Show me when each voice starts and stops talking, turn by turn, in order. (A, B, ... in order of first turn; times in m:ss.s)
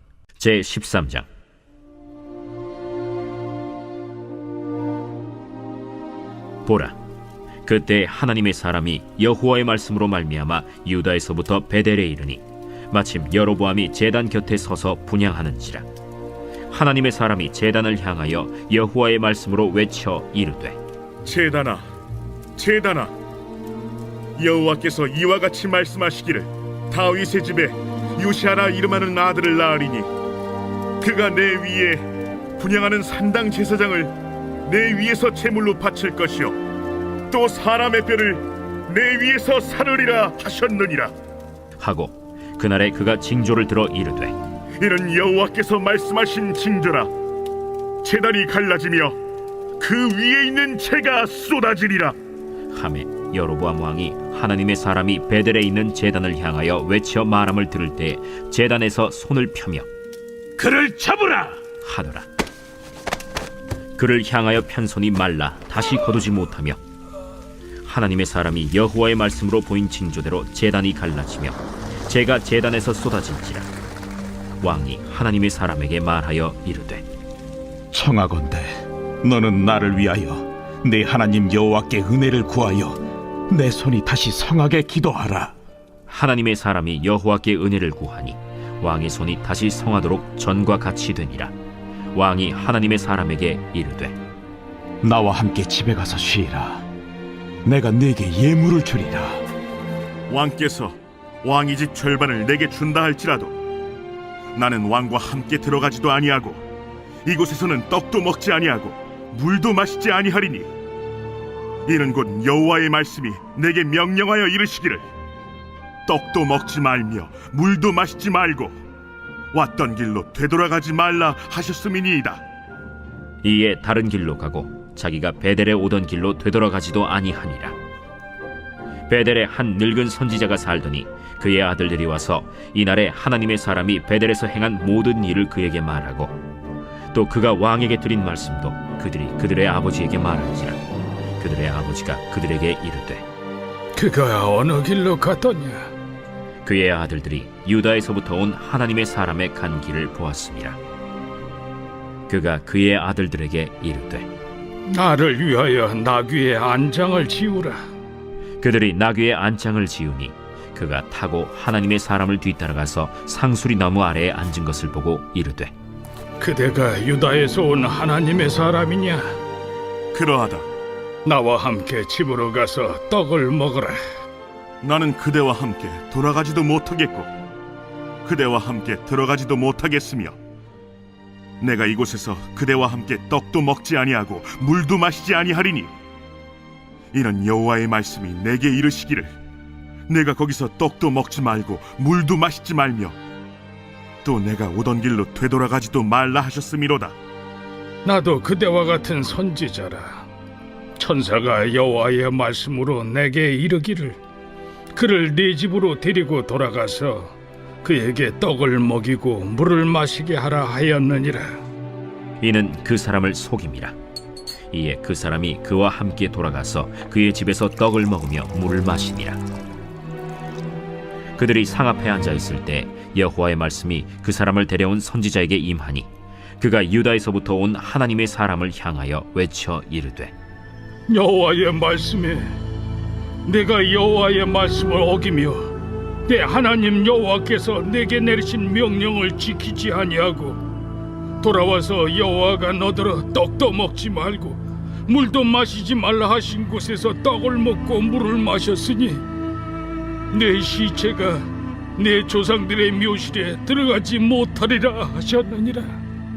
0:00.4-0:01.3 A
0:06.6-0:07.0 A
0:07.6-0:15.9 A
0:16.7-0:20.8 A
0:21.2-0:21.8 B
0:22.6-0:23.1 B
0:24.4-0:30.1 B
0:31.0-0:36.6 B
0:37.3-0:41.1 B
0:41.8-0:44.4 A
0:44.8-0:47.1 B
0:48.0-0:49.2 B
0:49.8-0:52.2 B
0:52.7-0:59.9 A
1:00.6-1:01.5 B
1:01.8-1:02.2 A
1:04.0-1:06.8 A
1:07.8-1:13.7 A
1:14.6-1:17.0 A
1:17.9-1:25.5 C
1:26.1-1:31.5 A
1:32.1-1:34.1 A
1:35.0-1:36.7 C
1:37.6-1:39.3 C
1:40.3-1:43.5 B
1:44.5-1:46.6 B
1:47.2-1:50.7 B
1:51.9-1:55.1 B
1:56.0-1:58.7 B
1:59.5-2:02.4 B
2:03.4-2:07.8 A
2:09.1-2:16.3 A
2:17.1-2:20.8 A
2:21.4-2:23.2 A
2:23.9-2:25.9 D
2:26.6-2:30.8 A
2:32.3-2:34.3 A
2:34.9-2:37.8 D
2:38.6-2:45.7 A
2:46.4-2:49.4 D
2:50.1-2:50.6 B
2:51.2-2:54.0 D
2:54.8-2:57.3 B
2:58.2-3:00.4 B
3:01.6-3:05.9 B
3:07.1-3:09.3 B
3:10.1-3:13.2 B
3:14.2-3:17.1 B
3:18.0-3:20.3 D
3:21.0-3:24.2 D
3:24.9-3:31.6 D
3:32.4-3:33.9 A
3:34.7-3:39.4 A
3:41.4-3:46.1 A
3:46.6-3:50.3 A
3:51.1-3:52.6 D
3:53.4-4:00.6 D
4:01.4-4:09.2 D
4:10.3-4:16.0 D